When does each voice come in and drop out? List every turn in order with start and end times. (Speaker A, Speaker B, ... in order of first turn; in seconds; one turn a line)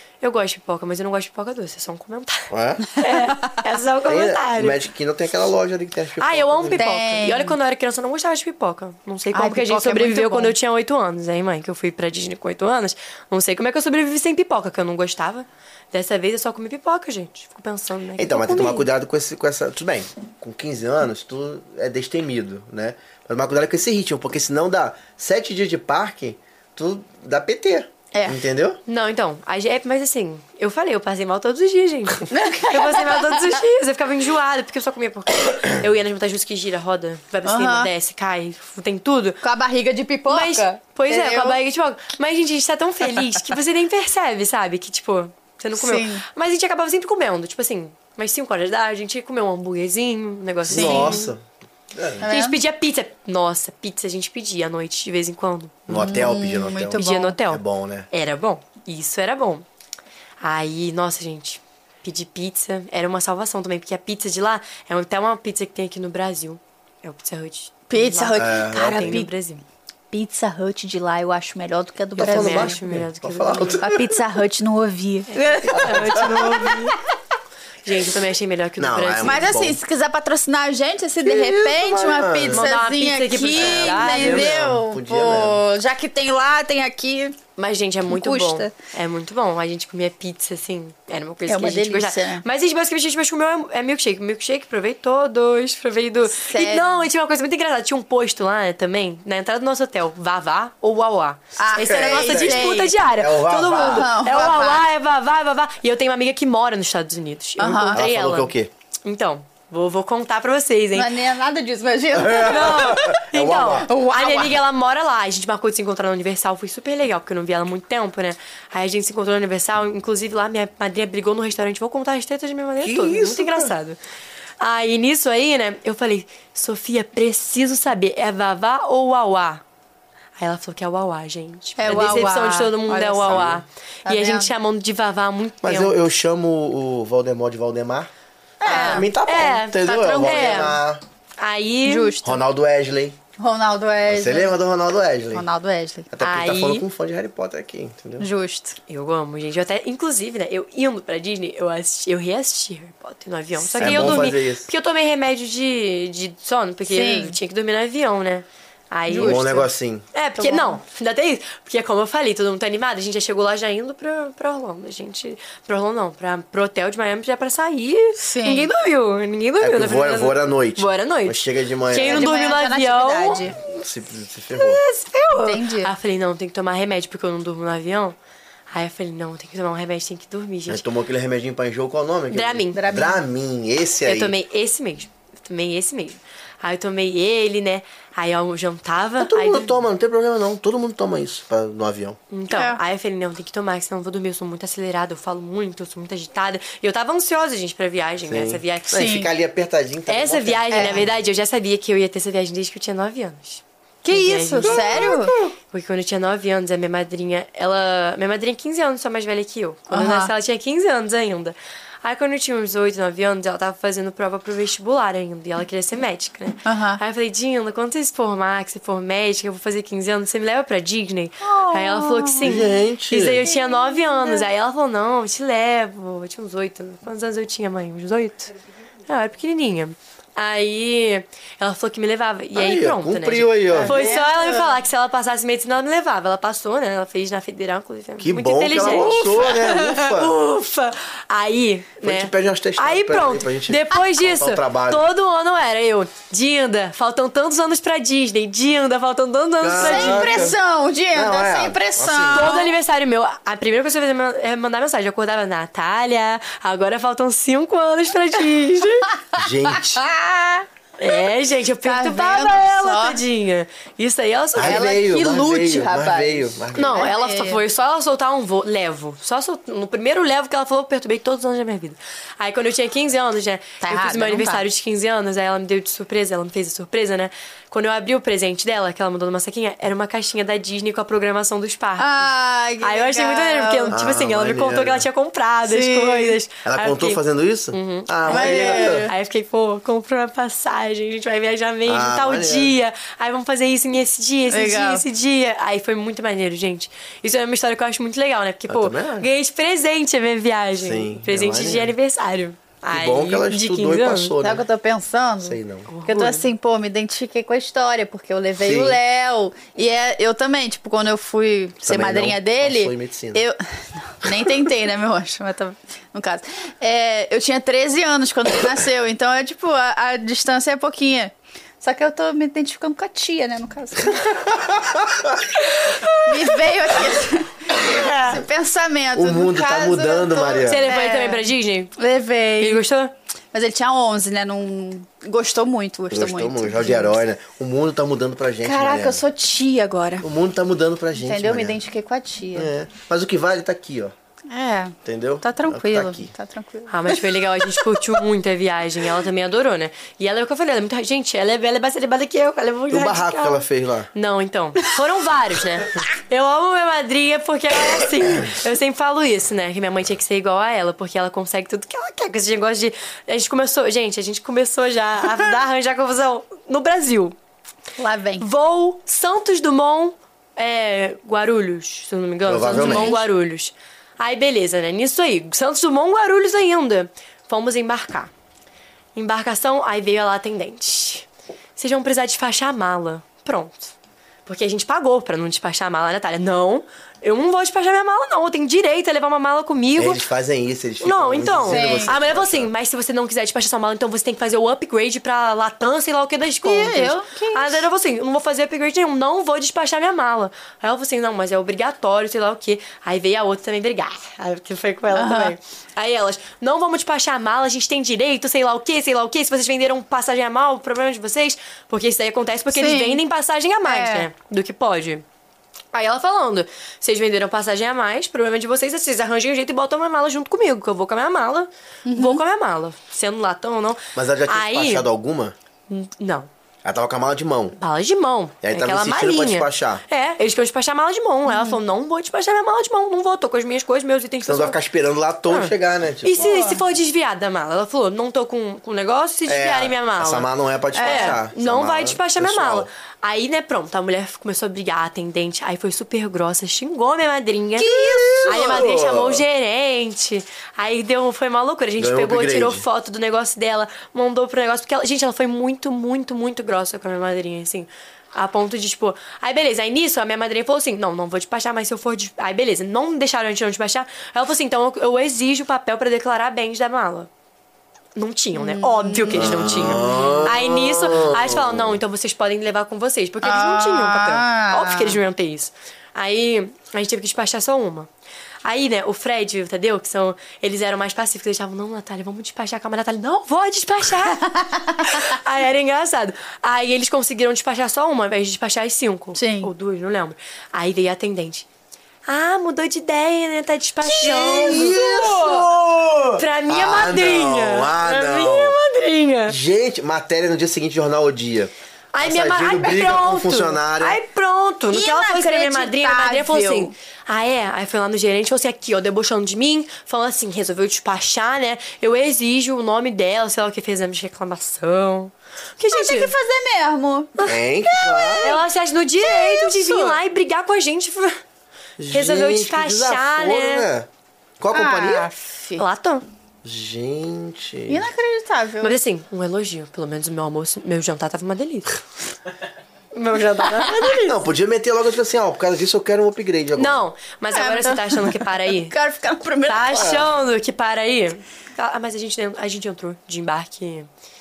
Speaker A: 0.2-4.8
Speaker B: 2.5-2.9
Speaker B: 4.0-6.8
Speaker A: 6.2-18.9
Speaker C: 6.7-7.5
Speaker C: 9.3-10.5
Speaker B: 18.2-28.8
Speaker C: 28.1-28.4
Speaker A: 28.9-39.4
Speaker C: 32.3-33.6
Speaker C: 37.4-37.9
Speaker C: 39.4-41.6
Speaker A: 40.3-51.3
Speaker C: 45.8-46.2
Speaker B: 50.6-52.3
Speaker C: 50.7-51.2
Speaker C: 52.2-52.5
Speaker A: 52.2-55.8
Speaker B: 55.9-58.1
Speaker C: 55.9-57.4
Speaker A: 56.9-59.6
Speaker A: 60.4-69.6
Speaker C: 67.9-69.3
Speaker B: 68.3-69.2
Speaker C: 70.1-72.8
Speaker B: 72.2-73.9
Speaker A: 72.2-73.9
Speaker C: 73.5-76.9
Speaker A: 75.3-77.0
Speaker B: 75.7-76.5
Speaker A: 77.8-79.5
Speaker B: 78.8-79.8
Speaker C: 79.2-87.4
Speaker B: 81.2-82.7
Speaker A: 82.5-84.5
Speaker B: 83.5-85.6
Speaker A: 87.6-111.1
Speaker C: 88.1-88.7
Speaker C: 91.5-92.4
Speaker C: 96.3-97.0
Speaker C: 101.6-102.9
Speaker B: 101.8-104.5
Speaker C: 103.7-104.8
Speaker C: 107.6-108.0
Speaker B: 107.9-108.7
Speaker C: 110.9-113.2
Speaker B: 112.1-113.9
Speaker A: 112.5-124.0
Speaker C: 113.8-114.6
Speaker B: 122.8-123.7
Speaker A: 124.6-129.6
Speaker A: 130.4-135.9
Speaker C: 131.8-134.5
Speaker B: 133.2-133.6
Speaker B: 135.6-138.1
Speaker C: 138.6-139.1
Speaker B: 138.6-141.0
Speaker A: 138.6-140.8
Speaker C: 139.8-140.8
Speaker A: 141.4-142.2
Speaker C: 141.8-142.4
Speaker B: 142.2-143.2
Speaker C: 143.4-144.5
Speaker B: 144.1-145.4
Speaker C: 145.3-146.1
Speaker B: 146.1-148.3
Speaker A: 146.2-146.8
Speaker C: 148.2-148.8
Speaker A: 148.9-173.4
Speaker C: 153.6-154.3
Speaker B: 153.8-154.7
Speaker C: 156.9-157.3
Speaker C: 159.1-159.5
Speaker B: 159.2-160.0
Speaker C: 160.4-160.8
Speaker C: 168.2-168.7
Speaker B: 169.6-172.3
Speaker C: 172.0-173.5
Speaker B: 173.5-174.8
Speaker A: 174.5-178.2
Speaker C: 175.3-175.9
Speaker A: 178.7-180.8
Speaker B: 180.7-184.3
Speaker A: 182.3-182.8
Speaker C: 182.7-183.2
Speaker A: 184.0-189.8
Speaker B: 189.2-192.2
Speaker A: 192.3-199.0
Speaker C: 192.5-192.8
Speaker B: 198.2-201.1
Speaker C: 198.9-199.3
Speaker A: 200.1-228.5
Speaker C: 200.7-201.0
Speaker C: 204.0-205.3
Speaker B: 204.6-205.5
Speaker C: 209.9-210.3
Speaker C: 216.7-217.0
Speaker C: 221.4-222.6
Speaker B: 222.4-223.5
Speaker C: 223.5-224.4
Speaker A: 229.1-250.5
Speaker B: 232.5-234.0
Speaker C: 233.7-234.7
Speaker B: 238.2-240.3
Speaker B: 242.0-245.1
Speaker B: 249.6-250.6
Speaker C: 249.8-252.7
Speaker B: 251.1-252.6
Speaker A: 252.3-259.1
Speaker B: 259.4-260.0
Speaker C: 259.9-260.6
Speaker A: 261.0-264.8
Speaker C: 261.8-263.2
Speaker B: 264.5-267.1
Speaker C: 264.6-267.6
Speaker A: 266.7-282.3
Speaker C: 273.8-274.6
Speaker C: 282.0-283.9
Speaker A: 282.8-287.2
Speaker B: 283.9-285.1
Speaker C: 285.7-286.4
Speaker B: 286.6-289.1
Speaker A: 287.7-304.3
Speaker C: 288.3-289.1
Speaker B: 291.9-292.8
Speaker C: 294.5-295.0
Speaker B: 298.7-299.3
Speaker B: 300.8-301.9
Speaker B: 302.9-304.6
Speaker C: 304.4-324.7
Speaker B: 305.4-305.9
Speaker A: 305.9-306.4
Speaker B: 308.6-309.0
Speaker B: 311.8-313.4
Speaker B: 324.6-325.5
Speaker C: 326.2-331.4
Speaker B: 329.1-330.9
Speaker A: 330.6-331.9
Speaker C: 332.0-332.8
Speaker A: 332.6-333.1
Speaker C: 333.5-337.2
Speaker B: 336.1-339.2
Speaker C: 338.6-340.3
Speaker B: 340.2-341.8
Speaker C: 341.2-342.7
Speaker B: 342.5-344.1
Speaker C: 344.5-347.8
Speaker B: 345.0-346.3
Speaker A: 346.9-353.6
Speaker B: 352.9-354.1
Speaker A: 354.1-367.3
Speaker C: 368.0-368.5
Speaker A: 368.4-378.3
Speaker B: 372.4-373.2
Speaker C: 372.7-373.2
Speaker A: 379.1-383.9
Speaker A: 384.4-390.2
Speaker B: 389.9-392.7
Speaker A: 391.0-415.2
Speaker C: 391.7-392.1
Speaker C: 396.6-397.8
Speaker C: 405.1-405.5
Speaker C: 412.7-413.2
Speaker C: 413.8-414.3
Speaker A: 415.9-425.1
Speaker C: 422.1-422.4
Speaker B: 424.1-425.5
Speaker A: 425.9-426.5
Speaker B: 426.8-427.8
Speaker A: 427.8-434.8
Speaker B: 428.6-430.0
Speaker C: 431.5-431.8
Speaker B: 434.4-436.5
Speaker A: 435.5-440.5
Speaker C: 436.4-436.8
Speaker B: 439.5-442.9
Speaker C: 440.9-441.4
Speaker A: 441.0-467.3
Speaker B: 447.8-449.4
Speaker C: 447.9-448.6
Speaker B: 452.0-452.8
Speaker A: 468.1-478.1
Speaker C: 468.6-470.3
Speaker B: 469.3-472.0
Speaker C: 473.4-475.2
Speaker A: 478.6-491.7
Speaker C: 484.4-485.1
Speaker C: 489.3-489.7
Speaker A: 492.2-495.7
Speaker B: 494.1-498.8
Speaker A: 496.3-499.6
Speaker B: 499.5-504.2
Speaker A: 502.1-516.3
Speaker C: 504.9-506.9
Speaker C: 515.9-517.4
Speaker B: 517.4-518.6
Speaker C: 517.9-518.5
Speaker A: 518.4-521.4
Speaker C: 519.2-520.2
Speaker B: 522.0-524.1
Speaker A: 522.1-523.9
Speaker B: 524.6-525.3
Speaker C: 524.7-525.8
Speaker A: 525.8-526.2
Speaker B: 526.6-528.1
Speaker C: 527.9-529.0
Speaker A: 528.8-532.0
Speaker A: 533.1-534.4
Speaker B: 534.2-537.0
Speaker A: 536.8-538.9
Speaker C: 537.5-540.1
Speaker A: 539.6-544.1
Speaker B: 539.9-540.2